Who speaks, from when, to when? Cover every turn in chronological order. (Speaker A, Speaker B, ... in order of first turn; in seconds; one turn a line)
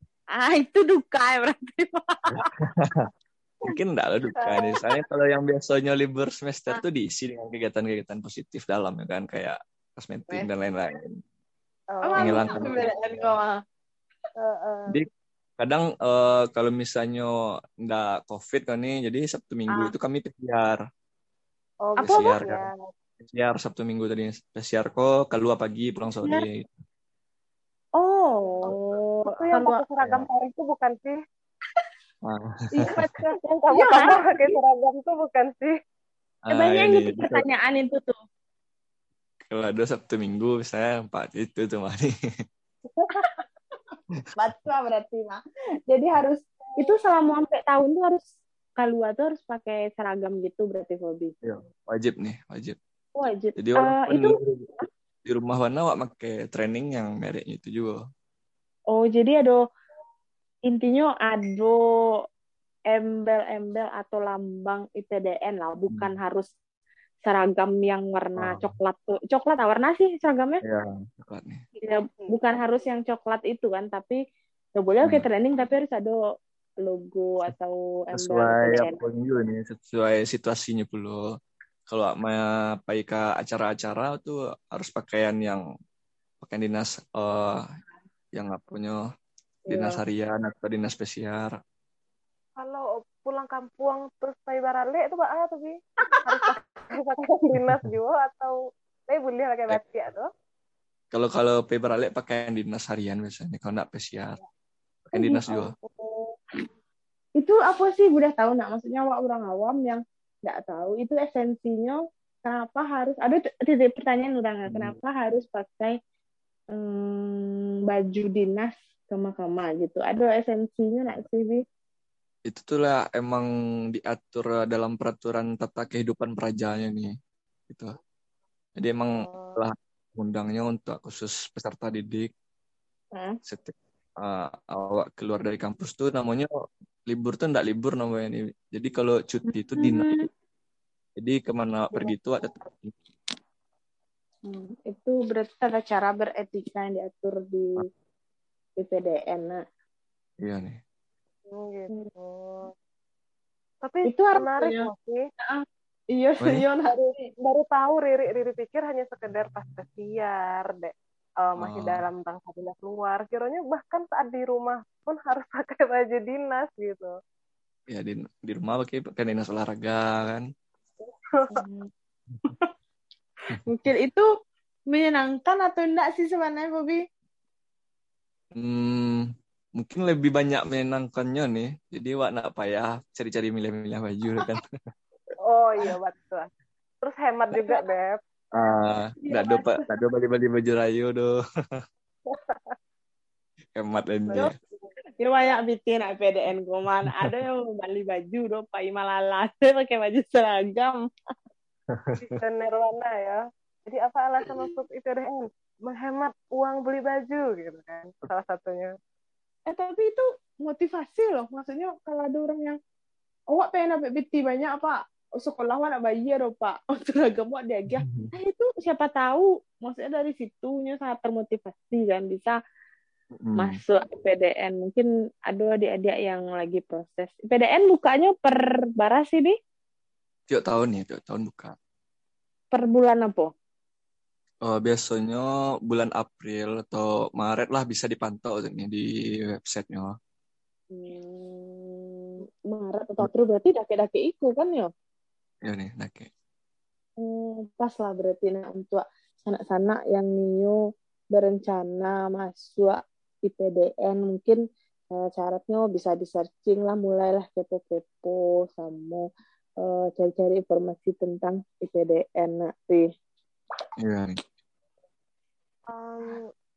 Speaker A: 0.3-2.5
Speaker B: 2.4-2.9
Speaker B: 3.7-11.2
Speaker C: 11.9-12.6
Speaker A: 12.0-13.6
Speaker B: 12.2-12.9
Speaker C: 14.4-15.0
Speaker B: 15.6-20.8
Speaker C: 21.9-22.7
Speaker A: 21.9-22.4
Speaker B: 22.0-22.6
Speaker B: 23.2-26.7
Speaker A: 28.0-29.8
Speaker C: 28.6-31.2
Speaker B: 30.0-30.2
Speaker B: 32.2-32.5
Speaker A: 32.8-34.5
Speaker C: 33.2-35.8
Speaker B: 36.5-37.5
Speaker A: 36.5-38.2
Speaker B: 39.5-42.1
Speaker C: 42.9-43.2
Speaker A: 44.4-48.2
Speaker A: 48.8-51.3
Speaker B: 51.4-52.8
Speaker A: 53.1-54.3
Speaker B: 53.6-54.7
Speaker B: 55.2-58.0
Speaker A: 58.9-59.6
Speaker A: 60.6-61.8
Speaker A: 62.9-66.5
Speaker B: 65.9-66.2
Speaker A: 67.2-70.6
Speaker B: 68.4-68.7
Speaker B: 70.6-71.6
Speaker C: 71.8-72.3
Speaker A: 71.8-74.2
Speaker A: 74.8-76.2
Speaker A: 76.8-79.0
Speaker B: 78.1-81.2
Speaker B: 81.9-85.6
Speaker B: 86.4-87.6
Speaker B: 88.3-89.0
Speaker B: 89.7-91.5
Speaker C: 92.6-100.3
Speaker A: 96.1-96.5
Speaker B: 101.1-104.4
Speaker B: 105.1-105.7
Speaker A: 105.2-106.1
Speaker A: 107.4-116.0
Speaker B: 114.7-115.0
Speaker A: 116.7-121.6
Speaker B: 122.5-127.1
Speaker B: 128.8-132.3
Speaker C: 129.2-129.6
Speaker B: 133.4-136.5
Speaker B: 137.1-140.3
Speaker A: 139.8-140.3
Speaker B: 141.2-142.9
Speaker C: 141.9-142.6
Speaker A: 144.4-147.8
Speaker A: 148.8-149.6
Speaker B: 150.4-150.8
Speaker C: 151.5-152.7
Speaker C: 153.8-155.2
Speaker A: 154.1-154.9
Speaker A: 155.4-156.9
Speaker C: 156.9-167.1
Speaker B: 161.6-162.0
Speaker B: 167.9-170.4
Speaker C: 171.3-171.6
Speaker A: 171.5-171.9
Speaker A: 173.7-174.3
Speaker A: 174.9-177.0
Speaker B: 178.6-179.2
Speaker B: 179.8-184.6
Speaker C: 185.5-186.5
Speaker C: 187.0-188.2
Speaker A: 187.5-187.8
Speaker B: 188.5-191.3
Speaker A: 189.2-189.6
Speaker C: 192.3-192.7
Speaker B: 193.8-194.5
Speaker C: 194.3-194.9
Speaker A: 195.2-201.0
Speaker B: 201.9-202.4
Speaker C: 202.2-208.9
Speaker A: 209.7-212.8
Speaker A: 213.5-222.5
Speaker B: 218.0-218.3
Speaker B: 223.3-223.8
Speaker A: 223.6-229.6
Speaker B: 230.5-231.7
Speaker A: 232.7-233.5
Speaker B: 234.7-240.1
Speaker A: 240.9-242.2
Speaker A: 242.7-244.9
Speaker B: 245.7-246.3
Speaker A: 247.2-250.8
Speaker A: 251.3-254.6
Speaker A: 255.1-259.2
Speaker A: 259.8-263.1
Speaker B: 264.0-264.4
Speaker C: 265.9-266.4